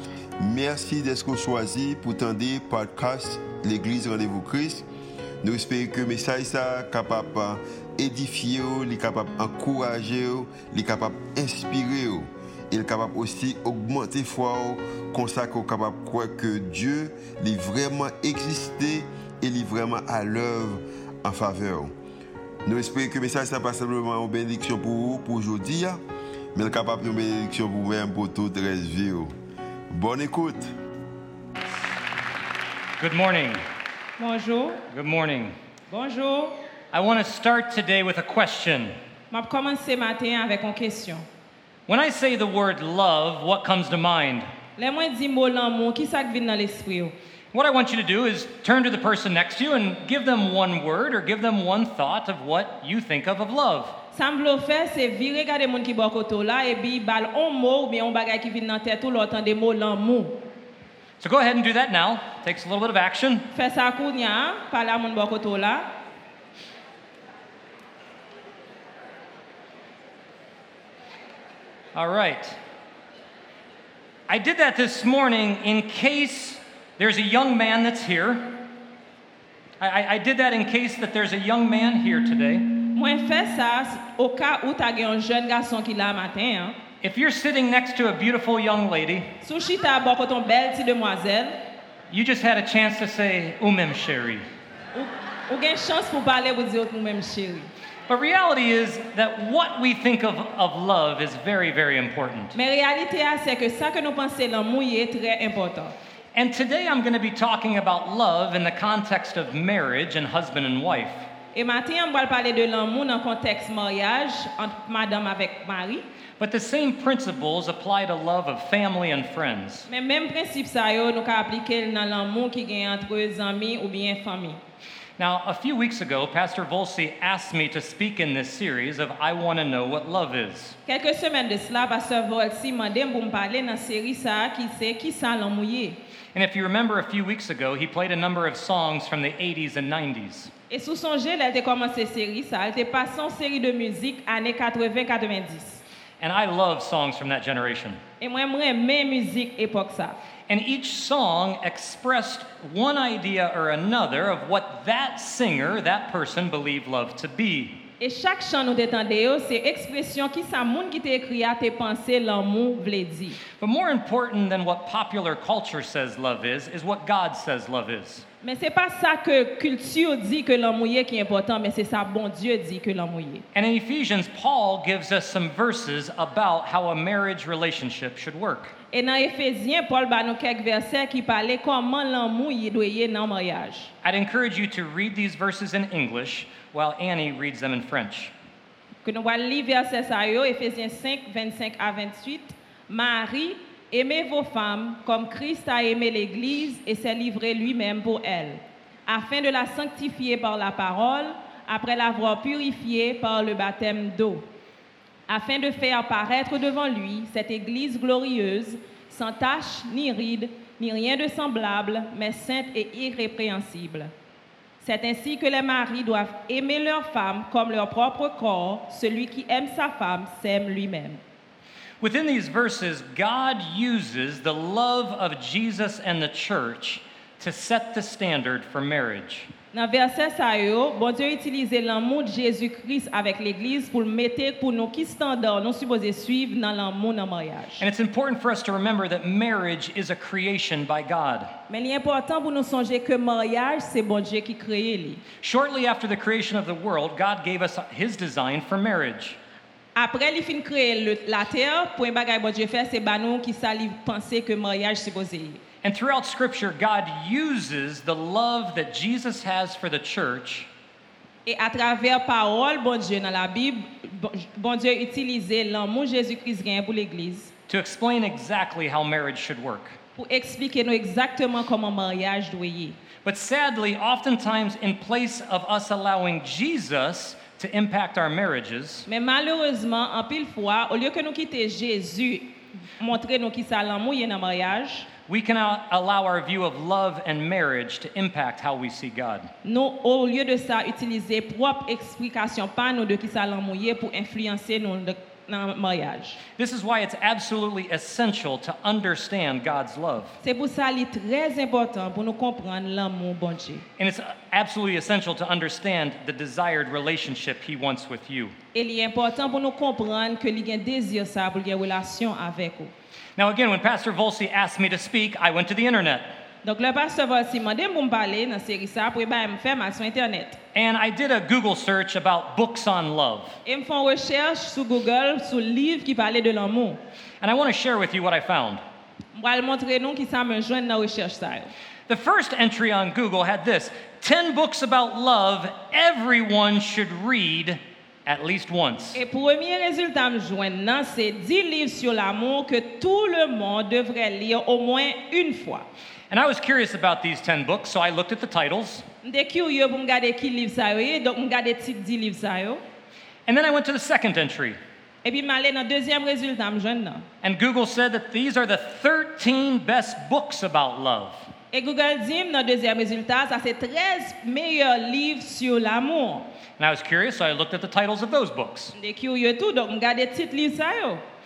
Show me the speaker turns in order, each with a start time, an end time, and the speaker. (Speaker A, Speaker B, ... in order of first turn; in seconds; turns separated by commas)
Speaker A: 0.4-4.8, Speaker A: 5.4-21.9, Speaker A: 22.6-26.0, Speaker A: 26.5-29.3, Speaker A: 29.9-30.7, Speaker B: 33.0-33.6, Speaker C: 34.2-34.8, Speaker B: 34.9-35.5, Speaker C: 35.9-36.6, Speaker B: 36.9-38.9, Speaker C: 39.3-41.2, Speaker B: 41.9-44.5, Speaker C: 44.8-47.1, Speaker B: 47.5-54.0, Speaker C: 54.1-60.4, Speaker B: 61.2-63.5, Speaker C: 63.5-65.9, Speaker B: 71.9-72.6, Speaker B: 74.3-78.6, Speaker B: 79.8-82.7, Speaker C: 82.9-86.8, Speaker B: 87.0-89.3, Speaker C: 89.4-91.6, Speaker B: 92.1-94.4, Speaker C: 94.9-97.7, Speaker B: 98.1-102.5, Speaker C: 102.5-105.9, Speaker B: 106.3-111.2, Speaker C: 111.5-116.0, Speaker B: 116.4-119.9, Speaker C: 119.9-124.6, Speaker B: 125.2-130.8, Speaker C: 130.9-136.0, Speaker B: 136.3-140.5, Speaker C: 140.7-145.8, Speaker B: 146.2-148.0, Speaker C: 148.2-150.2, Speaker B: 150.5-157.8, Speaker C: 158.0-163.4, Speaker B: 163.6-168.2, Speaker C: 168.4-173.4, Speaker B: 173.5-178.7, Speaker C: 178.9-183.9, Speaker B: 184.0-188.3, Speaker C: 189.0-204.4, Speaker C: 205.3-214.1, Speaker C: 214.8-221.2, Speaker B: 222.0-229.5, Speaker C: 229.7-237.8, Speaker B: 237.8-241.5, Speaker C: 241.7-245.2, Speaker B: 245.4-249.4, Speaker C: 249.9-255.6, Speaker B: 255.8-260.7, Speaker C: 261.4-267.5, Speaker B: 267.7-270.0, Speaker C: 270.2-273.0, Speaker B: 273.2-279.1, Speaker C: 279.1-285.1, Speaker B: 285.3-289.5, Speaker C: 289.6-296.4, Speaker B: 296.6-300.4, Speaker C: 300.4-303.9, Speaker B: 304.0-308.5, Speaker C: 308.7-312.9, Speaker B: 313.4-316.3, Speaker C: 316.6-320.6, Speaker B: 320.7-323.6, Speaker C: 323.6-327.0, Speaker B: 327.4-328.8, Speaker C: 329.3-331.7, Speaker B: 332.1-339.2, Speaker C: 339.1-345.9, Speaker B: 346.3-349.0, Speaker C: 349.2-352.8, Speaker B: 353.4-354.8, Speaker C: 355.2-357.2, Speaker B: 357.4-361.5, Speaker C: 361.7-366.5, Speaker B: 366.8-368.9, Speaker C: 368.9-371.2